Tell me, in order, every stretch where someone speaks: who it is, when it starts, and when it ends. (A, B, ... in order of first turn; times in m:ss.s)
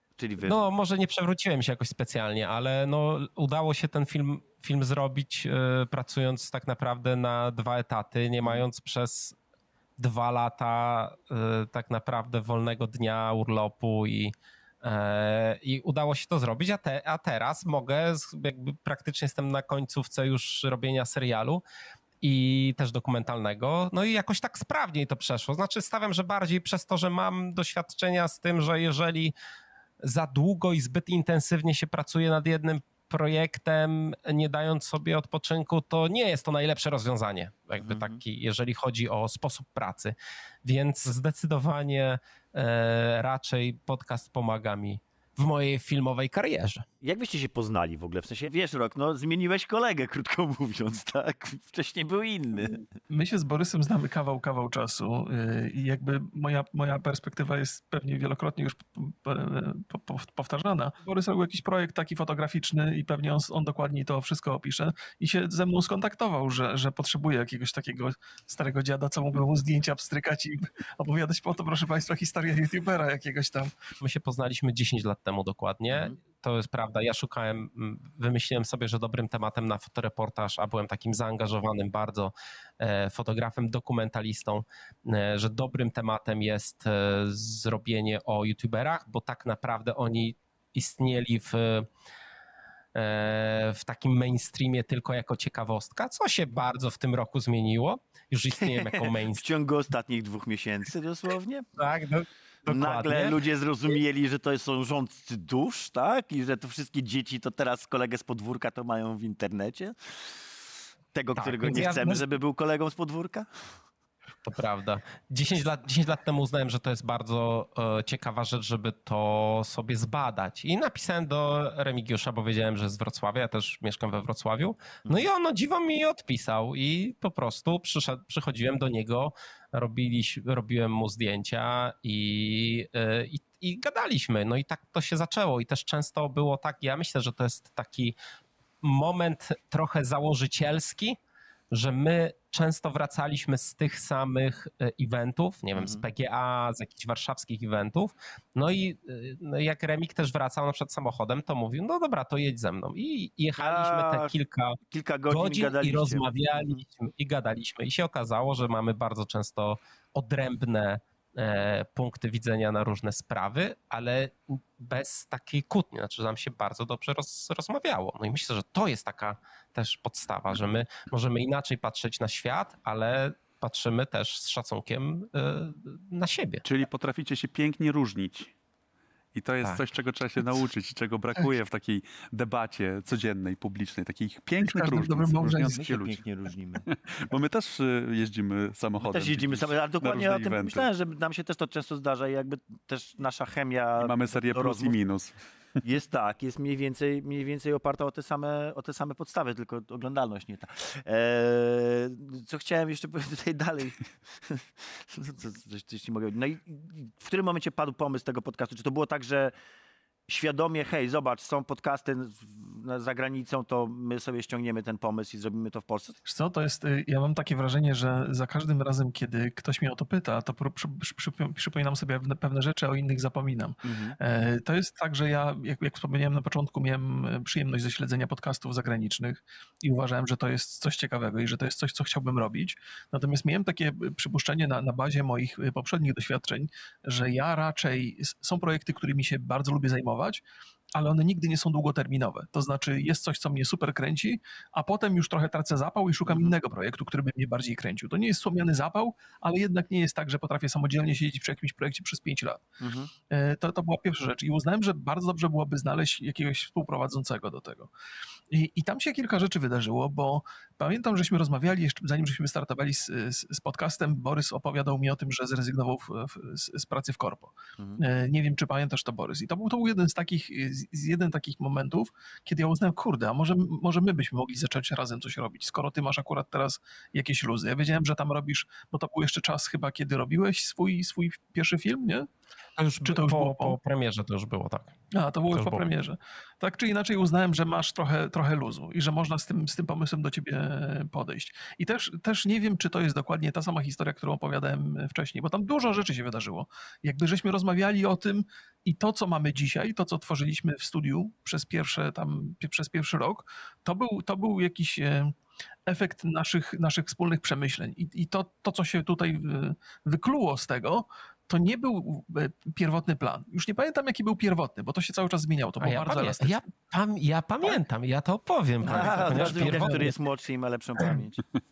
0:00.2-0:00.6 A
0:00.4-0:09.4 B
0:10.0-0:21.6 B
0:22.2-0:29.3 B
0:30.0-0:46.8 B
0:37.8-0:38.2 A
0:47.0-0:52.8 A
0:53.1-1:13.7 C
1:14.0-1:31.9 B
1:33.0-1:39.4 B
1:38.6-1:41.7 A
1:41.8-1:44.0 B
1:42.7-1:50.3 A
1:51.1-1:53.5 A
1:51.4-1:52.3 B
1:54.4-2:18.2 B
2:18.8-2:21.2 B
2:21.7-2:34.8 B
2:25.8-2:26.0 A
2:33.6-2:34.3 A
2:34.9-2:36.8 A
2:35.3-2:56.6 B
2:56.6-2:58.5 D
2:59.3-3:06.2 D
3:04.6-3:05.8 C
3:05.7-3:06.8 A
3:06.9-3:10.9 D
3:09.0-3:15.0 A
3:14.0-3:15.4 D
3:15.8-3:29.5 A
3:30.3-3:36.2 A
3:36.2-4:00.4 C
3:43.8-3:44.2 A
4:01.0-4:12.6 C
4:06.3-4:06.5 A
4:12.8-4:13.1 A
4:13.3-4:17.9 C
4:18.5-4:42.3 C
4:42.8-4:45.0 B
4:43.0-4:43.8 C
4:45.1-5:16.6 C
4:45.5-4:45.9 B
5:15.8-5:20.1 B
5:18.8-5:21.4 A
5:18.8-5:20.1 C